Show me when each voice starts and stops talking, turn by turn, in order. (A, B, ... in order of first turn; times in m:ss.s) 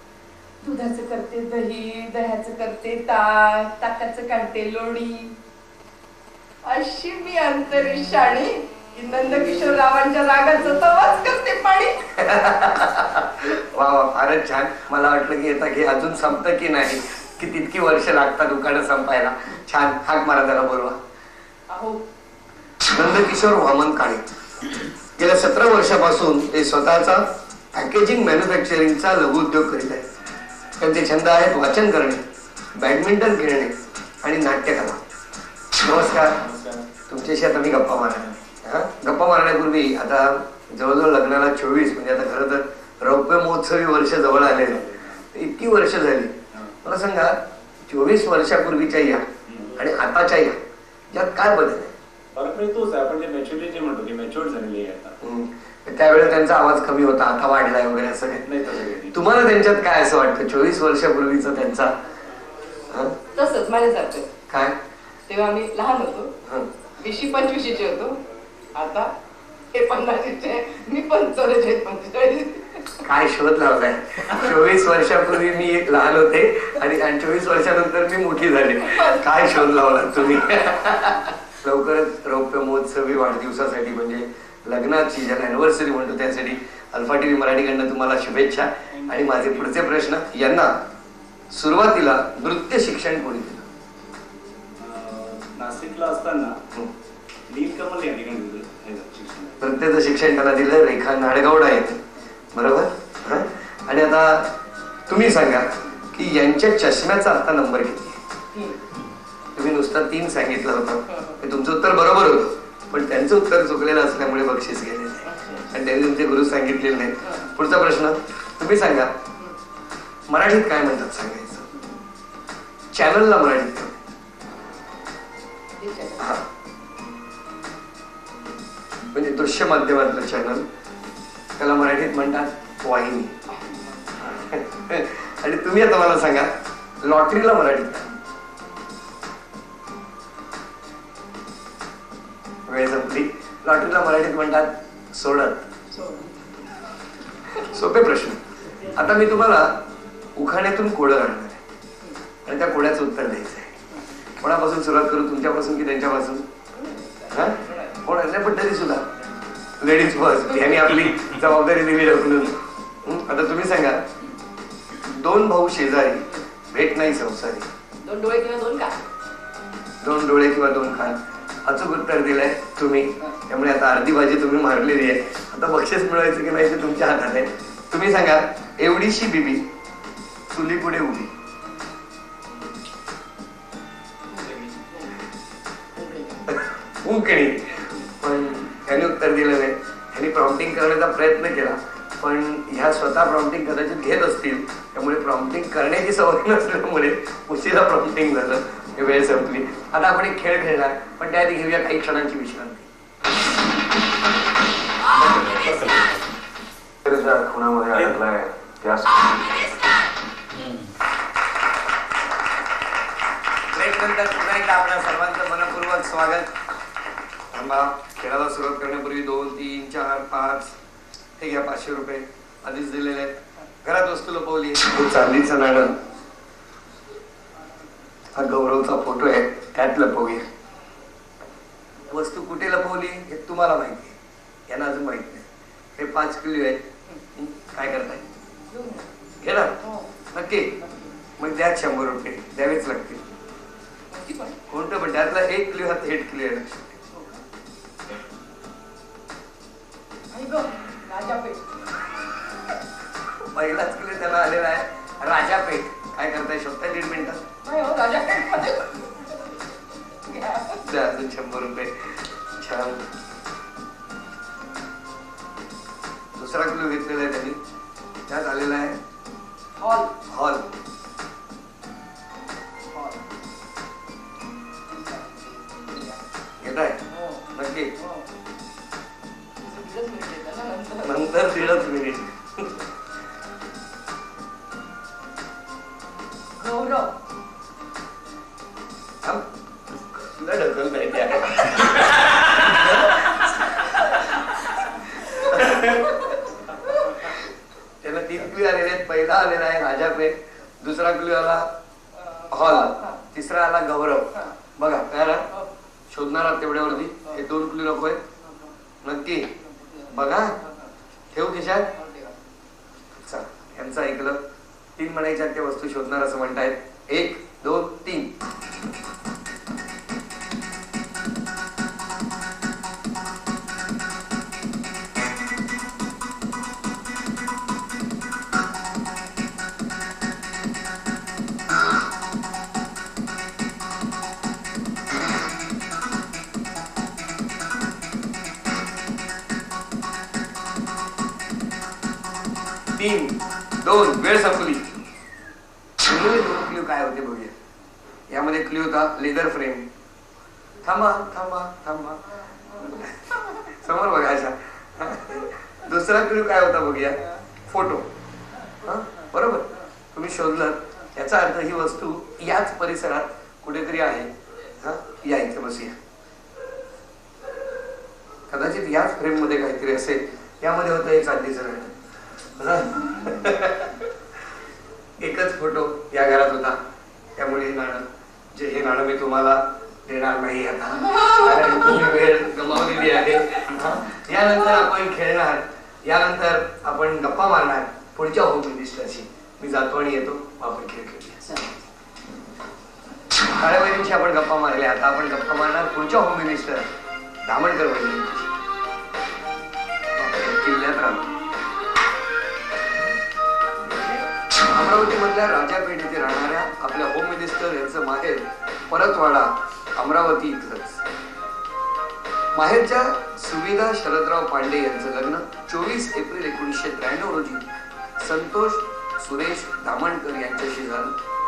0:00.6-0:05.3 A
0:06.6-0:12.1 A
0:12.1-0:21.0 B
0:21.7-0:22.0 A
0:22.9-0:24.2 B
0:25.2-0:30.1 B
0:30.8-0:35.0 B
0:35.8-0:36.4 B
0:36.4-0:36.8 C
0:37.1-0:51.9 B
0:44.8-0:45.2 C
0:49.5-0:49.8 C
0:52.3-0:55.2 C
0:55.2-0:58.5 B
0:58.4-0:59.2 C
0:59.1-1:01.9 B
1:02.9-1:03.2 B
1:03.3-1:04.3 A
1:04.5-1:04.8 B
1:05.3-1:06.3 A
1:07.0-1:08.2 A
1:08.8-1:09.1 A
1:09.7-1:13.0 A
1:13.0-1:30.7 B
1:18.8-1:19.7 A
1:29.1-1:29.7 C
1:31.5-1:33.7 B
1:34.8-1:36.6 C
1:37.5-1:39.7 C
1:39.6-1:42.0 B
1:42.5-1:44.6 B
1:45.1-1:48.2 B
1:48.5-1:48.8 A
1:49.6-1:59.1 B
1:51.1-1:51.4 A
1:55.2-1:55.7 A
1:57.2-1:57.5 A
2:00.3-2:01.7 B
2:02.9-2:04.0 B
2:05.8-2:06.4 A
2:09.1-2:10.6 B
2:11.6-2:13.3 B
2:13.5-2:14.2 A
2:14.2-2:18.1 B
2:22.6-2:25.7 B
2:25.9-2:26.3 A
2:27.5-2:31.6 B
2:32.4-2:33.7 B
2:34.4-2:36.4 B
2:36.7-2:38.0 A
2:37.3-2:39.1 B
2:39.8-2:44.1 B
2:44.9-2:47.7 B
2:48.0-2:49.0 A
2:50.0-2:59.7 B
3:00.5-3:01.3 B
3:04.3-3:05.1 A
3:06.0-3:06.5 A
3:06.5-3:22.9 B
3:25.2-3:26.1 D
3:25.5-3:26.0 C
3:27.0-3:29.1 D
3:33.7-3:36.5 B
3:37.5-3:40.8 B
3:41.4-3:46.0 B
3:48.3-3:50.4 B
3:52.1-3:54.2 B
3:54.7-3:58.2 B
3:58.7-3:59.1 A
3:59.4-3:59.8 B
3:59.8-4:00.1 A
4:00.3-4:00.8 B
4:00.8-4:01.1 A
4:01.4-4:03.2 B
4:04.1-4:04.6 A
4:04.7-4:07.0 B
4:07.1-4:07.4 A
4:10.3-4:11.7 A
4:13.2-4:17.4 B
4:17.6-4:19.5 A
4:20.2-4:20.8 A
4:20.8-4:23.0 B
4:26.3-4:27.6 B
4:28.3-4:29.0 B
4:29.8-4:30.2 A
4:30.3-4:30.7 B
4:32.9-4:33.2 A
4:34.9-4:36.2 A
4:36.6-4:37.0 B
4:37.1-4:38.3 A
4:37.6-4:37.9 B
4:39.6-4:41.4 A
4:41.0-4:42.7 B
4:46.6-4:47.1 A
4:50.1-4:54.2 B
4:55.3-4:56.1 B
4:55.4-4:57.1 A
4:58.0-5:01.7 B
5:02.2-5:03.2 A
5:02.5-5:05.4 B
5:06.1-5:08.2 B
5:08.4-5:08.7 A
5:09.0-5:09.5 B
5:09.6-5:10.9 A
5:10.1-5:10.6 B
5:11.3-5:11.9 B
5:11.9-5:12.4 A
5:13.2-5:14.4 B
5:15.0-5:18.3 B
5:42.9-5:45.0 B
5:46.0-5:47.5 B
5:48.3-5:49.9 B
5:50.8-5:52.2 B
5:52.7-5:53.0 A
5:52.8-5:58.1 B
5:58.8-6:06.0 B
6:08.5-6:11.9 B
6:12.6-6:14.1 B
6:15.2-6:16.8 B
6:17.4-6:31.4 B
6:33.6-6:36.9 B
6:37.4-6:38.5 B
6:40.1-6:41.3 B
6:43.8-6:51.0 B
6:52.5-6:57.6 B
6:58.2-7:01.1 B